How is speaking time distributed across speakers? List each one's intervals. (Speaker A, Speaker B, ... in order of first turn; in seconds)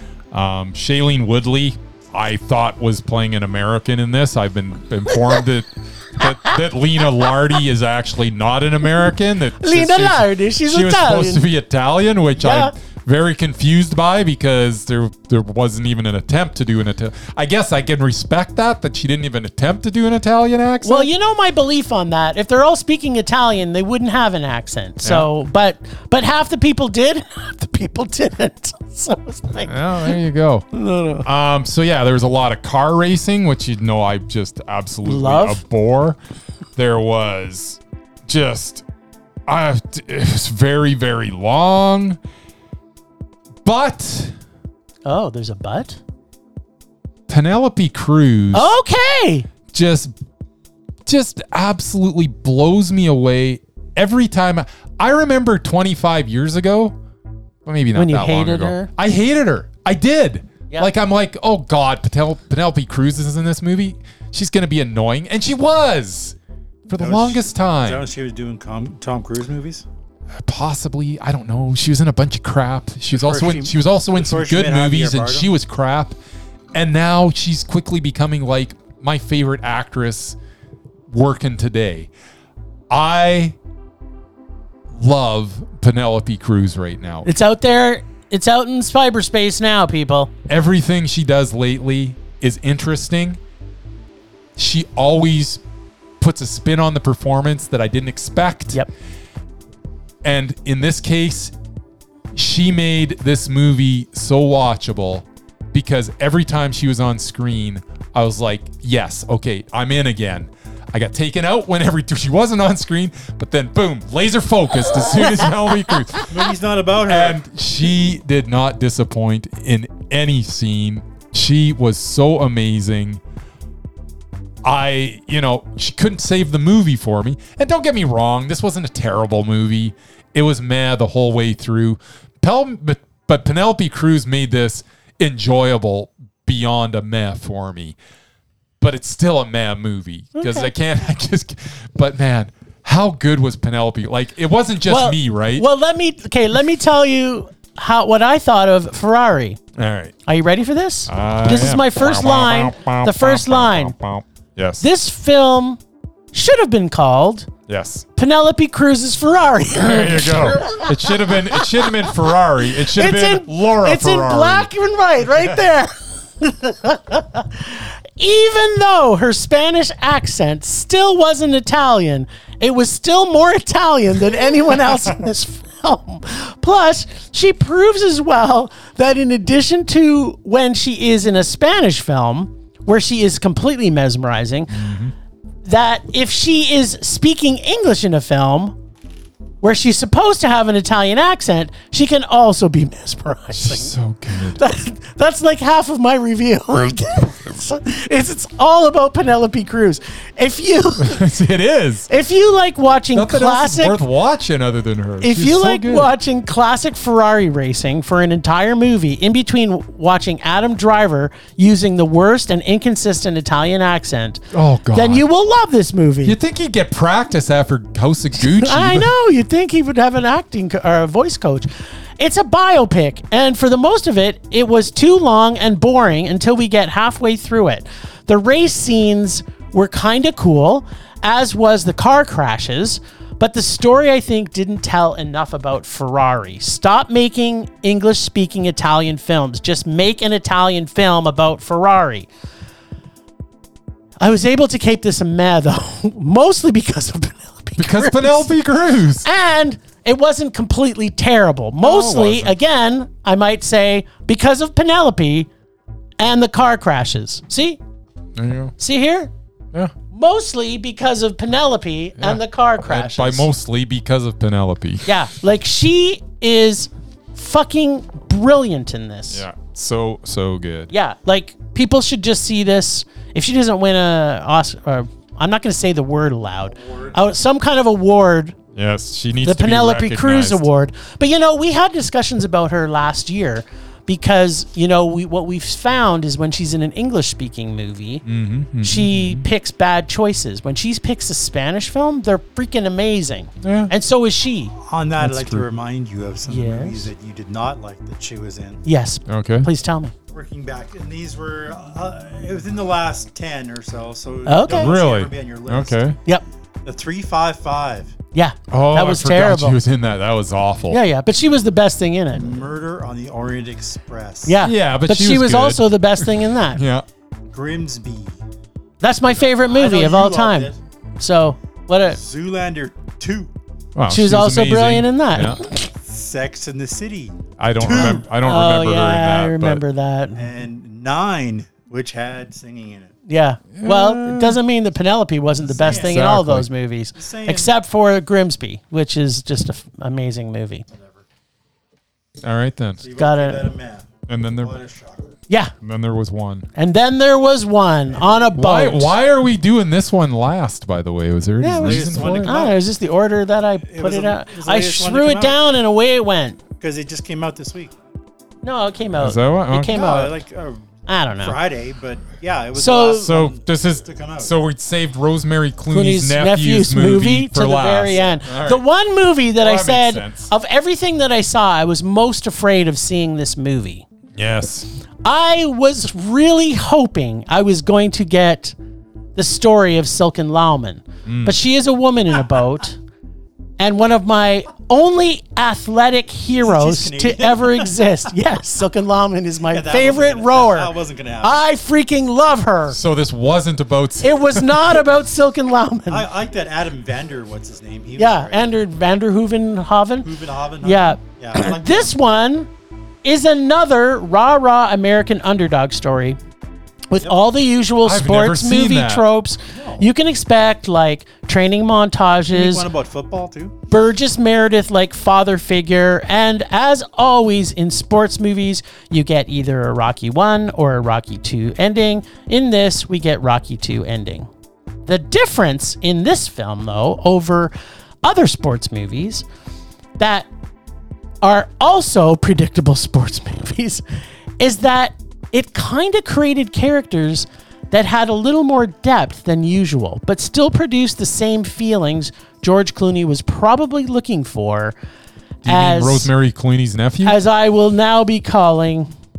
Speaker A: 0.3-21.1, 25.0-25.3, 29.6-30.7, 31.2-36.2, 36.8-38.8, 39.5-42.2, 43.6-44.3, 47.3-48.7, 49.7-50.1, 51.0-57.0, 57.6-66.3, 66.9-68.0, 70.3-76.2, 76.7-80.4, 81.1-82.1, 82.9-83.5, 84.9-87.3, 90.5-93.4, 94.6-95.6, 96.2-98.8, 100.2-101.5, 102.3-116.4, 117.1-123.2, 124.6-137.9, 138.8-145.7, 149.8-150.1, 151.1-154.8, 157.7-158.1, 159.8-164.7, 184.7-185.1, 193.5-194.6, 201.0-202.1, 203.1-206.1, 214.5-215.2, 216.2-219.1, 247.8-249.3, 251.8-252.5, 258.4-258.7, 262.2-265.1, 269.3-270.9, 278.7-280.7, 288.2-289.5, 293.6-293.9, 295.2-295.6, 299.3-299.7, 304.7-306.2, 308.7-311.0, 314.6-317.0, 323.9-325.6, 327.6-329.8, 333.7-334.6, 335.8-336.7, 342.4-343.0, 344.3-344.8, 345.8-346.7, 348.5-352.5, 359.2-360.1, 363.2-368.8, 369.6-370.5, 374.4-374.9, 381.2-381.6, 392.9-395.0, 408.0-409.2, 445.6-447.4
Speaker B: 5.1-5.4, 9.6-11.4, 12.4-12.7, 20.8-30.1, 30.7-31.2, 35.0-35.6, 45.0-46.0, 48.5-49.5, 57.9-58.9, 87.2-90.3, 140.3-140.7, 144.8-149.6, 150.2-153.9, 154.8-155.8, 156.3-157.5, 158.2-162.1, 162.8-184.8, 185.6-188.8, 189.6-201.3, 202.1-204.0, 205.2-216.4, 218.4-242.3, 244.2-248.5, 249.2-255.5, 256.2-257.8, 258.8-259.3, 260.1-263.5, 265.1-269.4, 270.9-278.6, 279.4-288.2, 288.8-294.7, 296.5-297.1, 298.8-300.1, 304.4-304.9, 308.3-309.8, 310.9-312.5, 314.4-316.8, 319.0-322.2, 324.1-325.9, 327.9-330.5, 333.3-340.9, 343.1-343.7, 345.5-345.7, 346.7-349.1, 351.6-356.6, 358.6-360.4, 361.1-361.6, 362.7-363.3, 365.9-374.0, 375.2-378.7, 379.4-383.0, 383.8-393.0, 394.2-396.2, 398.2-400.3, 400.8-402.7, 403.2-406.4, 407.1-412.9, 413.9-424.5, 425.1-427.7, 428.2-429.4, 430.2-430.5, 431.4-434.0, 434.6-444.9, 445.6-446.3, 447.2-449.1
Speaker C: 67.0-69.8, 73.1-75.5, 116.3-117.4, 276.7-277.2, 294.7-298.8, 300.3-306.1, 306.8-308.1, 312.3-314.6, 317.5-318.4, 319.4-320.8, 322.1-323.5, 326.0-328.2, 330.3-333.1, 335.6-336.2, 337.1-337.7, 340.9-341.2, 343.0-345.3, 348.1-348.5, 351.8-352.8, 353.9-355.6, 356.8-357.9, 359.9-360.9, 361.4-364.5, 386.6-388.2, 389.7-391.6, 396.1-398.7, 400.2-402.1, 409.7-410.1, 412.5-413.7